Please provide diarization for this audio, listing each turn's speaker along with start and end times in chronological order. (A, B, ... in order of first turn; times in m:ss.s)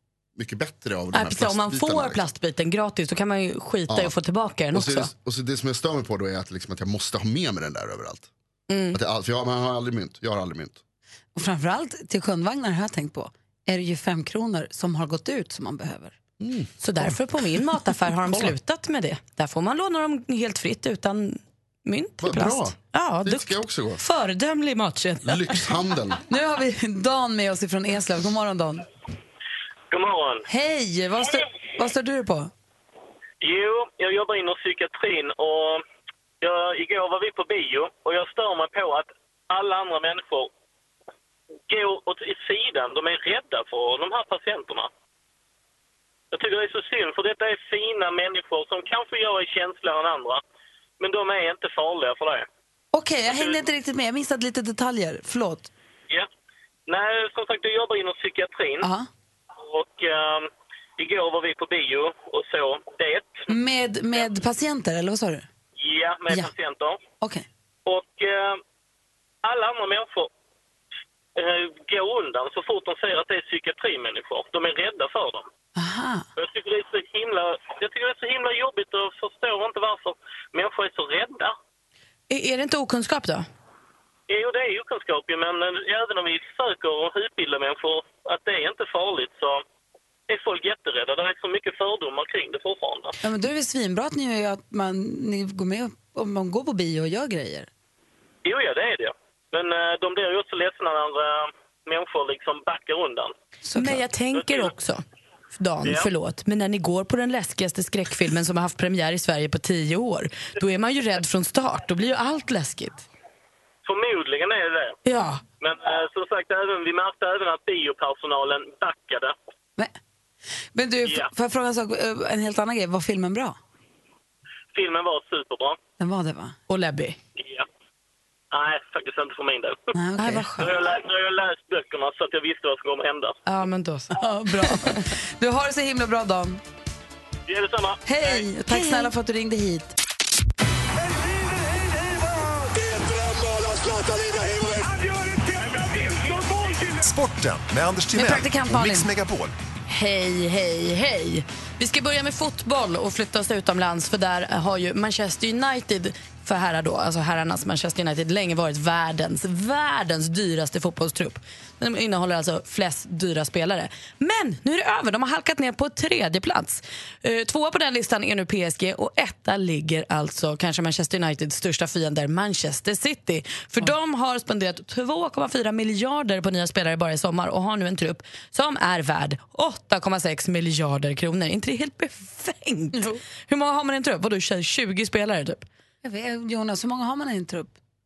0:00.4-0:02.2 A
0:01.1-0:05.1 B
0:03.9-0:04.1 A
0:04.7-0:08.3 A
0:08.7-0:09.0 B
0:08.9-0:10.8 A
0:11.4-0:16.2 C
0:16.4-0:17.1 A
0:16.8-0:25.7 B
0:22.2-0:24.0 A
0:25.2-0:26.2 A
0:26.3-0:28.8 C
0:29.9-0:30.5 D
0:30.5-0:32.5 C
0:33.4-0:35.8 D
0:36.4-0:40.5 D
0:41.7-0:44.9 D
0:46.3-0:50.4 D
0:51.0-0:52.5 D
0:52.9-0:55.7 C
0:53.3-0:53.6 D
0:56.9-0:58.9 D
0:58.8-0:59.1 C
0:59.6-1:03.4 D
1:03.5-1:05.5 C
1:05.8-1:07.0 D
1:07.9-1:08.6 D
1:09.4-1:10.3 D
1:11.4-1:15.5 D
1:15.8-1:16.2 C
1:16.4-1:21.6 D
1:22.3-1:23.5 B
1:24.3-1:29.6 D
1:30.3-1:33.2 D
1:33.2-1:37.7 C
1:38.4-1:43.3 D
1:43.6-1:44.0 C
1:43.8-1:45.0 B
1:44.4-1:44.7 D
1:45.6-1:53.1 B
1:53.8-1:55.0 D
1:55.1-1:55.4 B
1:55.6-1:59.3 D
2:00.7-2:03.6 C
2:04.7-2:05.8 D
2:06.0-2:06.6 C
2:06.7-2:07.2 B
2:07.4-2:07.7 D
2:08.5-2:09.8 D
2:10.0-2:10.7 C
2:10.2-2:10.5 B
2:10.6-2:13.4 D
2:13.5-2:15.0 B
2:14.1-2:16.6 C
2:17.5-2:18.4 D
2:18.1-2:19.9 C
2:18.7-2:19.1 B
2:26.8-2:29.5 E
2:28.1-2:29.1 C
2:29.9-3:05.7 B
3:06.0-3:07.7 C